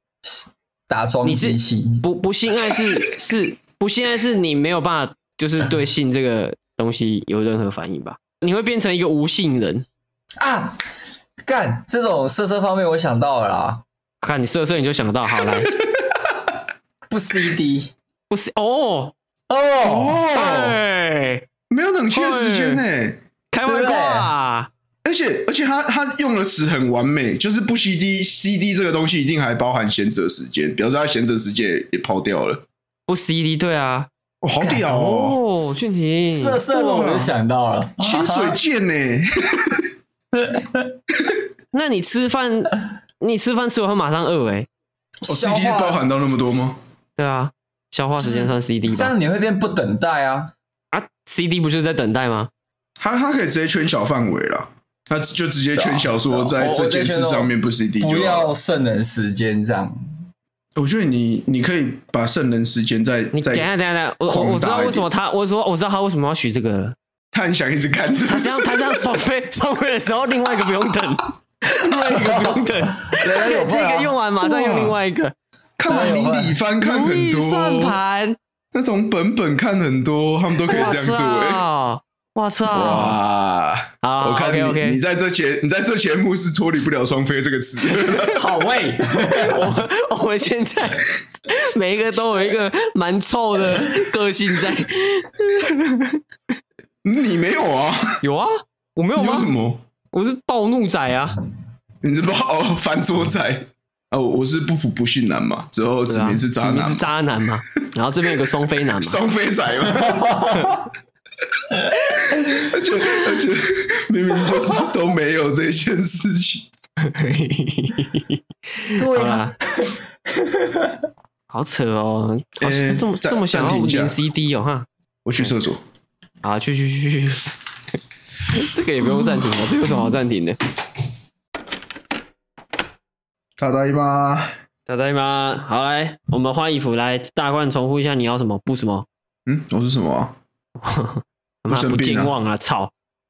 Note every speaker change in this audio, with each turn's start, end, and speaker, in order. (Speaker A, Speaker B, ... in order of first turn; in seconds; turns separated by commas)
Speaker A: 0.2-2.0, Speaker B: 1.2-9.8, Speaker A: 10.4-10.8, Speaker A: 11.4-13.8, Speaker B: 14.2-15.7, Speaker C: 15.5-16.1, Speaker A: 17.1-17.9, Speaker B: 18.3-19.1, Speaker A: 19.5-20.2, Speaker C: 19.8-20.8, Speaker B: 20.2-21.4, Speaker C: 21.7-23.2, Speaker B: 22.1-22.8, Speaker B: 23.5-24.7, Speaker A: 23.6-24.3, Speaker C: 25.0-32.6, Speaker B: 33.1-34.1, Speaker C: 34.4-35.4, Speaker A: 34.6-34.9, Speaker B: 34.9-36.6, Speaker A: 35.6-38.6, Speaker C: 36.7-37.3, Speaker C: 38.0-39.9, Speaker A: 40.4-40.9, Speaker B: 41.7-44.7, Speaker A: 45.2-46.0, Speaker C: 45.2-46.8, Speaker B: 47.2-49.1, Speaker A: 48.2-50.5, Speaker B: 50.9-52.5, Speaker C: 53.0-58.5, Speaker A: 55.7-60.0, Speaker C: 60.8-63.7, Speaker B: 63.3-67.0, Speaker C: 64.2-65.0, Speaker C: 67.3-69.0, Speaker B: 68.3-75.3, Speaker A: 72.4-74.1, Speaker C: 74.4-75.0, Speaker C: 75.8-78.0, Speaker A: 75.9-76.6, Speaker B: 76.8-78.4, Speaker C: 78.7-81.6, Speaker B: 80.7-83.2, Speaker C: 82.7-88.5, Speaker B: 84.0-85.0, Speaker A: 88.2-89.8, Speaker B: 89.3-96.2, Speaker C: 97.0-98.2, Speaker B: 98.2-99.5, Speaker C: 99.2-99.8, Speaker B: 100.1-101.4, Speaker C: 102.0-107.1, Speaker B: 106.1-109.2, Speaker C: 108.9-110.5, Speaker A: 109.8-110.9, Speaker B: 110.5-110.8, Speaker C: 112.2-116.7, Speaker B: 117.0-119.5, Speaker A: 119.0-121.0, Speaker B: 121.5-124.9, Speaker C: 122.6-124.2, Speaker C: 125.2-125.8, Speaker B: 126.4-127.5, Speaker B: 128.5-130.6, Speaker C: 133.6-134.5, Speaker B: 134.9-139.1, Speaker C: 139.4-140.3, Speaker B: 140.8-142.9, Speaker C: 141.7-142.3